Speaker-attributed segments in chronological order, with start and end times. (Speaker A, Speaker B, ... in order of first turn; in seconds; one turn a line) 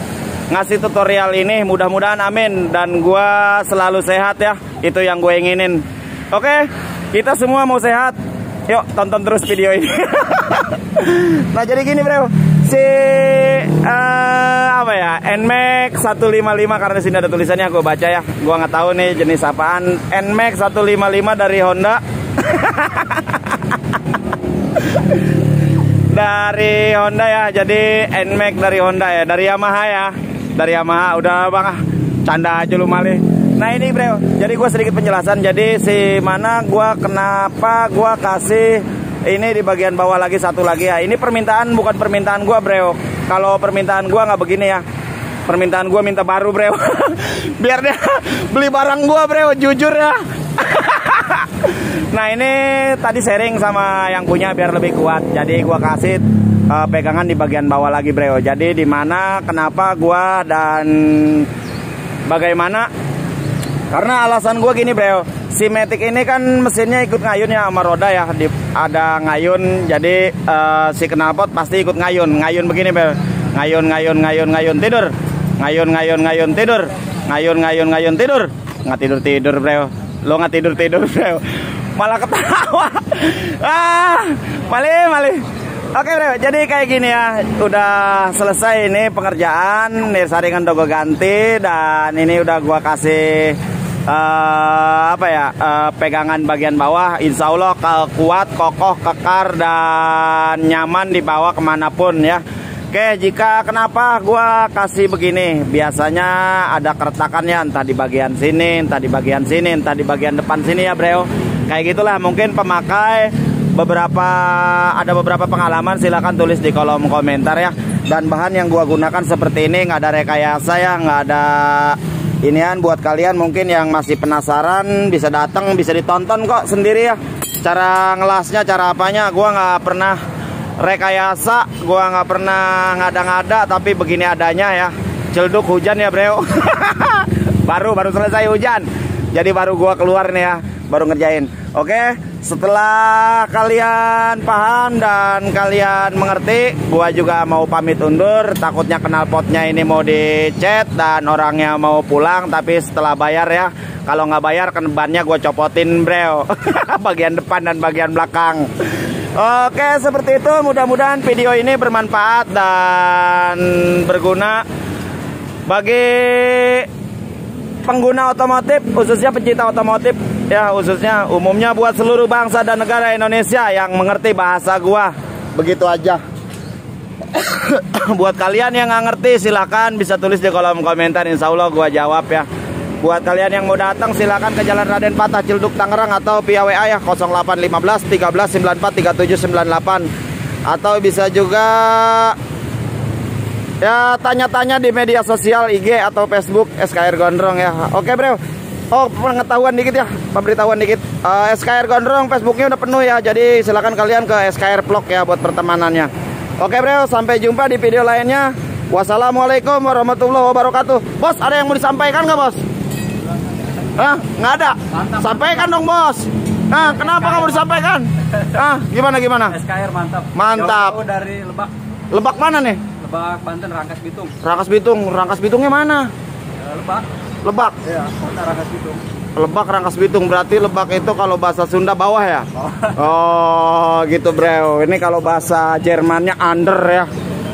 Speaker A: 0.5-8.2
Speaker A: 8.7-23.6
Speaker A: 24.8-25.1
Speaker A: 26.1-44.8
Speaker A: 45.5-61.5
Speaker A: 62.3-62.9
Speaker A: 63.9-81.4
Speaker A: 82.0-85.4
Speaker A: 85.9-130.2
Speaker A: 130.8-164.6
Speaker A: 165.7-166.9
Speaker A: 167.8-176.2
Speaker A: 177.3-182.4
Speaker A: 183.0-190.1
Speaker A: 190.7-192.4
Speaker A: 193.8-198.4
Speaker A: 198.9-212.6
Speaker A: 213.9-219.6
Speaker B: 214.9-215.6
Speaker B: 217.0-217.5
Speaker B: 219.5-221.7
Speaker A: 220.3-221.0
Speaker A: 222.1-222.8
Speaker B: 222.9-224.3
Speaker A: 224.4-226.1
Speaker B: 226.6-227.1
Speaker A: 227.4-227.8
Speaker B: 227.9-229.0
Speaker A: 229.3-237.1